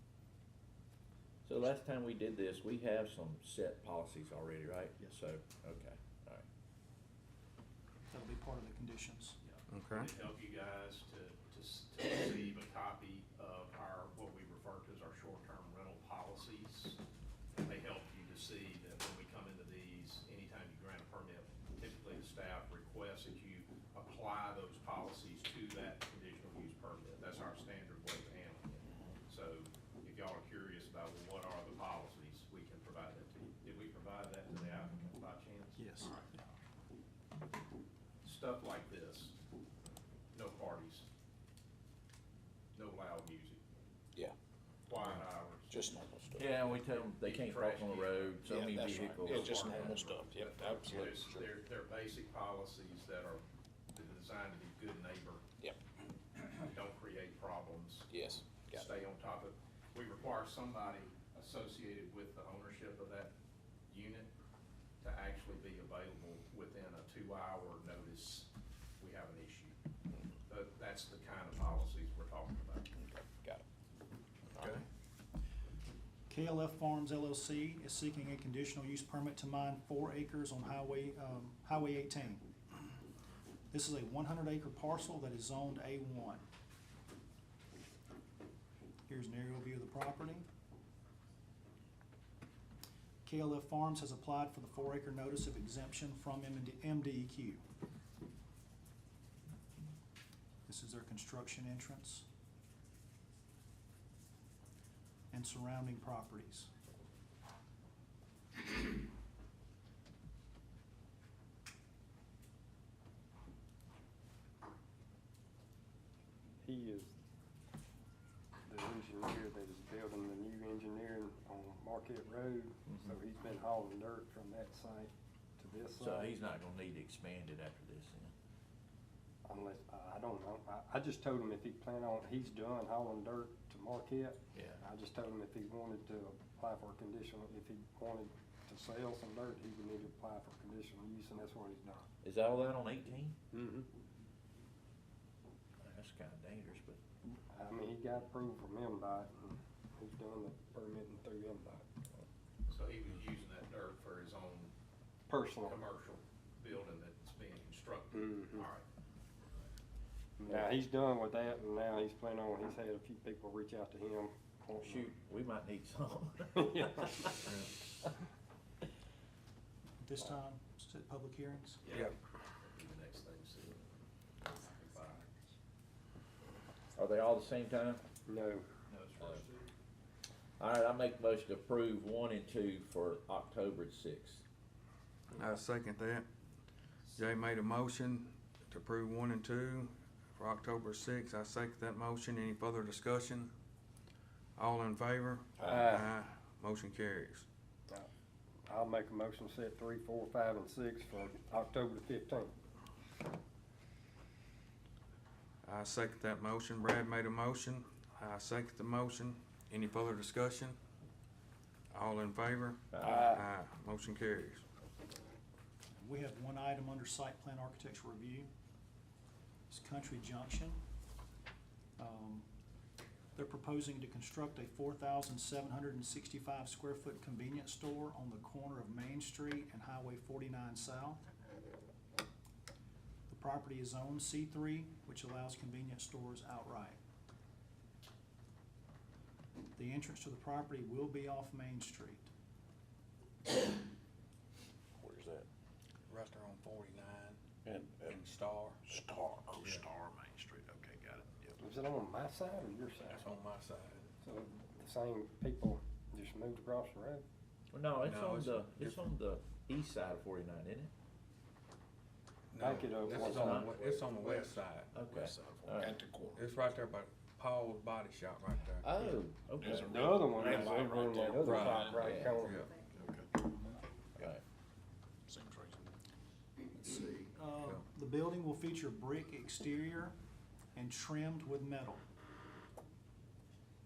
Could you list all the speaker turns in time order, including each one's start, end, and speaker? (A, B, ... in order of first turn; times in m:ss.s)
0:01.4-0:06.4 A
0:08.1-0:09.4 B
0:09.4-0:17.0 C
0:09.7-0:10.1 D
0:17.6-0:36.3 C
0:35.8-0:36.4 B
0:38.2-0:39.4 C
0:40.3-0:41.1 C
0:42.8-0:43.6 C
0:44.9-0:45.8 C
0:45.7-0:46.9 E
0:46.4-0:49.5 A
0:46.9-0:55.4 C
0:48.4-0:51.5 E
0:56.4-0:58.2 C
0:58.1-0:58.9 E
0:58.7-1:03.3 C
1:03.9-1:04.3 C
1:05.0-1:09.8 C
1:10.5-1:13.0 C
1:13.0-1:13.6 E
1:14.6-1:14.8 E
1:16.3-1:22.5 B
1:23.7-1:26.5 B
1:29.1-1:30.5 B
1:33.2-1:37.6 B
1:40.7-1:42.2 B
1:45.3-1:46.7 B
1:56.6-1:57.1 F
1:58.7-2:06.4 F
2:06.0-2:08.3 A
2:09.4-2:22.1 F
2:14.5-2:14.8 A
2:22.2-2:23.4 A
2:23.5-2:23.9 F
2:25.8-2:27.0 A
2:27.4-2:31.8 F
2:32.7-2:34.7 C
2:35.3-2:35.8 F
2:35.6-2:38.8 C
2:38.1-2:38.7 F
2:40.4-2:45.1 F
2:44.8-2:47.3 A
2:46.6-2:47.4 F
2:47.4-2:47.7 D
2:50.0-2:51.8 B
2:51.8-2:53.9 C
2:54.4-2:55.3 C
2:57.0-2:58.0 A
2:58.3-2:58.6 F
2:58.9-2:59.7 C
3:00.6-3:04.4 A
3:05.3-3:06.2 D
3:07.2-3:13.5 D
3:14.6-3:17.5 D
3:15.6-3:16.1 F
3:18.7-3:22.5 F
3:25.6-3:30.8 D
3:31.9-3:34.6 D
3:32.9-3:33.3 A
3:33.0-3:33.4 F
3:36.0-3:38.5 B
3:39.7-3:40.8 B
3:42.0-3:42.4 B
3:43.4-3:51.2 B
3:53.3-3:57.0 B
3:59.8-4:02.3 B
4:05.0-4:05.5 E
4:06.1-4:07.4 D
4:07.6-4:08.2 E
4:08.1-4:08.8 D
4:08.8-4:11.6 E
4:11.6-4:13.2 F
4:13.1-4:14.1 D
4:14.2-4:17.2 F
4:17.7-4:20.9 A
4:18.0-4:19.1 D
4:22.5-4:24.9 D
4:22.6-4:24.1 F
4:23.0-4:23.8 A
4:24.2-4:26.4 E
4:24.9-4:26.0 A
4:26.3-4:28.9 D
4:28.7-4:30.0 A
4:29.6-4:32.2 E
4:29.9-4:32.7 F
4:31.4-4:32.7 D
4:32.0-4:32.5 A
4:32.9-4:33.4 E
4:34.2-4:34.4 A
4:35.3-4:36.0 E
4:36.7-4:40.2 B
4:40.7-4:42.0 B